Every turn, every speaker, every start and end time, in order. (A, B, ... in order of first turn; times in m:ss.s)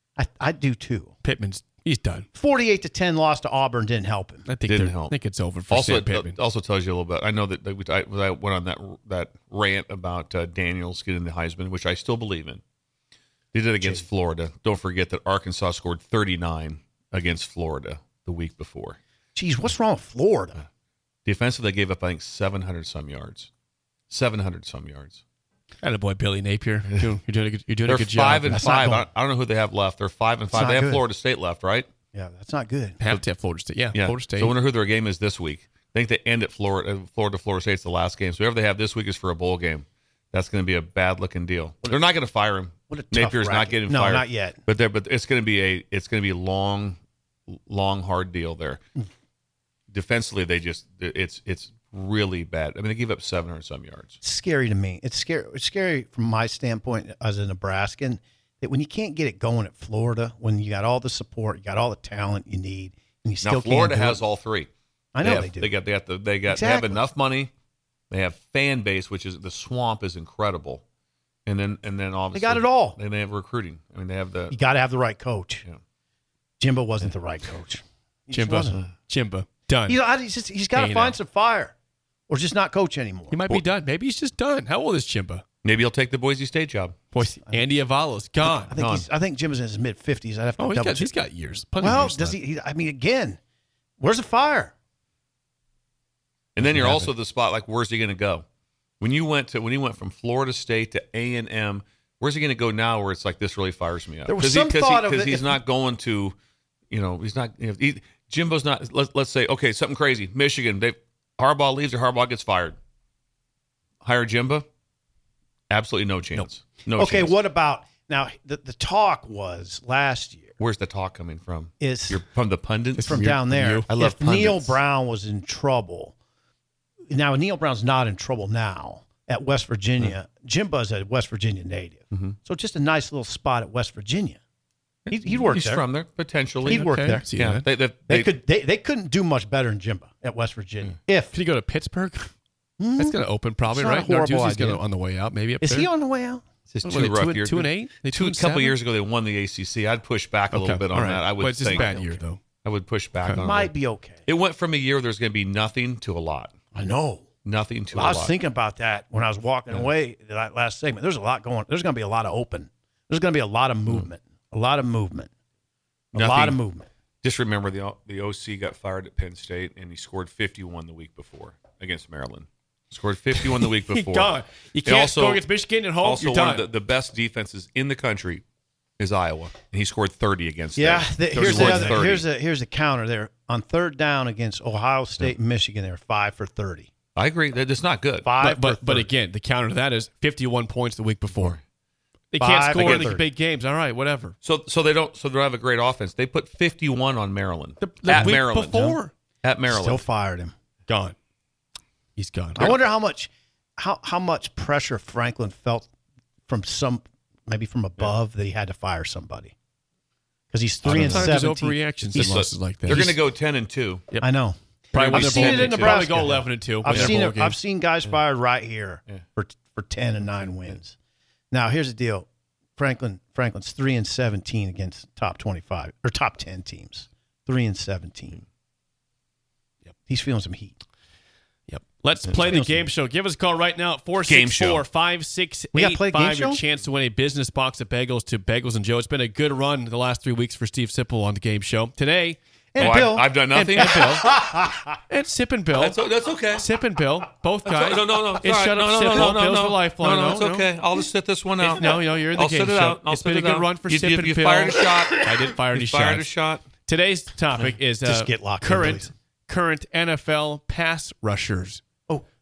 0:00.2-0:01.1 A
0:01.2-0:02.3 B
0:02.3-0:04.5 A
0:04.4-0:06.4 B
0:04.7-0:05.1 C
0:05.7-0:12.6 C
0:13.5-0:19.0 C
0:13.8-0:14.0 A
0:19.3-0:20.6 A
0:21.2-0:23.5 C
0:24.1-0:25.2 C
0:25.8-0:28.7 B
0:27.9-0:31.9 C
0:28.5-0:29.1 A
0:30.5-0:31.0 A
0:32.1-0:33.0 A
0:33.0-0:34.5 B
0:33.9-0:47.0 C
0:42.9-0:44.6 A
0:47.5-0:48.8 C
0:49.9-0:54.2 C
0:54.2-1:04.2 A
1:03.4-1:04.7 C
1:05.1-1:05.7 A
1:05.2-1:07.5 C
1:06.4-1:07.0 A
1:08.1-1:10.8 C
1:11.4-1:14.6 C
1:12.3-1:13.0 A
1:14.5-1:15.6 A
1:16.6-1:18.8 A
1:18.3-1:20.0 B
1:19.9-1:21.7 A
1:20.7-1:21.2 B
1:22.3-1:23.6 A
1:23.3-1:25.4 B
1:25.6-1:27.0 C
1:27.1-1:28.7 B
1:27.4-1:27.7 A
1:28.4-1:31.1 A
1:28.8-1:29.1 C
1:30.6-1:32.4 B
1:31.8-1:33.4 A
1:34.0-1:34.7 A
1:36.6-1:38.4 C
1:36.7-1:37.0 A
1:36.7-1:37.1 B
1:39.0-1:46.3 C
1:44.2-1:45.6 A
1:46.9-1:52.8 C
1:54.0-1:54.6 C
1:55.7-1:57.4 C
1:56.3-2:00.6 A
2:00.6-2:03.2 C
2:01.8-2:02.2 A
2:03.0-2:03.9 B
2:03.0-2:06.1 A
2:03.9-2:04.8 C
2:07.1-2:14.4 A
2:12.1-2:12.4 C
2:15.0-2:18.4 C
2:15.1-2:15.9 A
2:16.6-2:17.3 A
2:16.6-2:17.6 B
2:18.1-2:21.3 A
2:21.3-2:22.3 B
2:22.8-2:24.8 A
2:23.0-2:25.9 B
2:25.6-2:26.4 A
2:26.7-2:31.9 C
2:26.8-2:28.7 B
2:30.5-2:32.4 B
2:31.7-2:32.1 A
2:32.6-2:33.7 C
2:33.4-2:34.2 A
2:34.2-2:36.5 C
2:36.7-2:37.3 A
2:37.4-2:38.4 C
2:37.9-2:45.3 A
2:46.1-2:46.6 C
2:46.1-2:46.9 A
2:47.2-2:55.5 C
2:53.3-2:56.7 B
2:56.0-2:58.4 C
2:59.0-3:02.2 C
3:00.7-3:06.9 A
3:01.4-3:02.0 B
3:07.1-3:08.3 C
3:08.2-3:09.1 A
3:08.4-3:11.6 B
3:11.3-3:11.6 C
3:12.3-3:14.4 B
3:12.4-3:13.2 A
3:12.7-3:13.2 C
3:14.4-3:20.1 C
3:17.8-3:19.1 B
3:19.6-3:20.5 A
3:20.9-3:21.2 B
3:22.2-3:22.7 B
3:22.6-3:25.9 A
3:26.5-3:29.5 A
3:30.5-3:33.1 A
3:30.8-3:33.2 B
3:30.9-3:31.3 C
3:32.1-3:34.0 C
3:34.2-3:40.9 A
3:34.9-3:37.6 B
3:34.9-3:36.2 C
3:36.8-3:37.2 C
3:40.3-3:40.8 C
3:41.5-3:48.4 A
3:50.1-3:50.8 A
3:51.7-4:02.4 B
3:52.3-3:52.9 A
3:54.2-3:54.8 C
3:55.7-3:56.6 A
4:02.7-4:04.8 A
4:02.8-4:04.3 C
4:02.9-4:04.3 B
4:05.1-4:06.0 B
4:05.8-4:06.7 C
4:06.5-4:10.7 B
4:07.6-4:16.6 C
4:11.6-4:21.8 B
4:18.0-4:19.1 A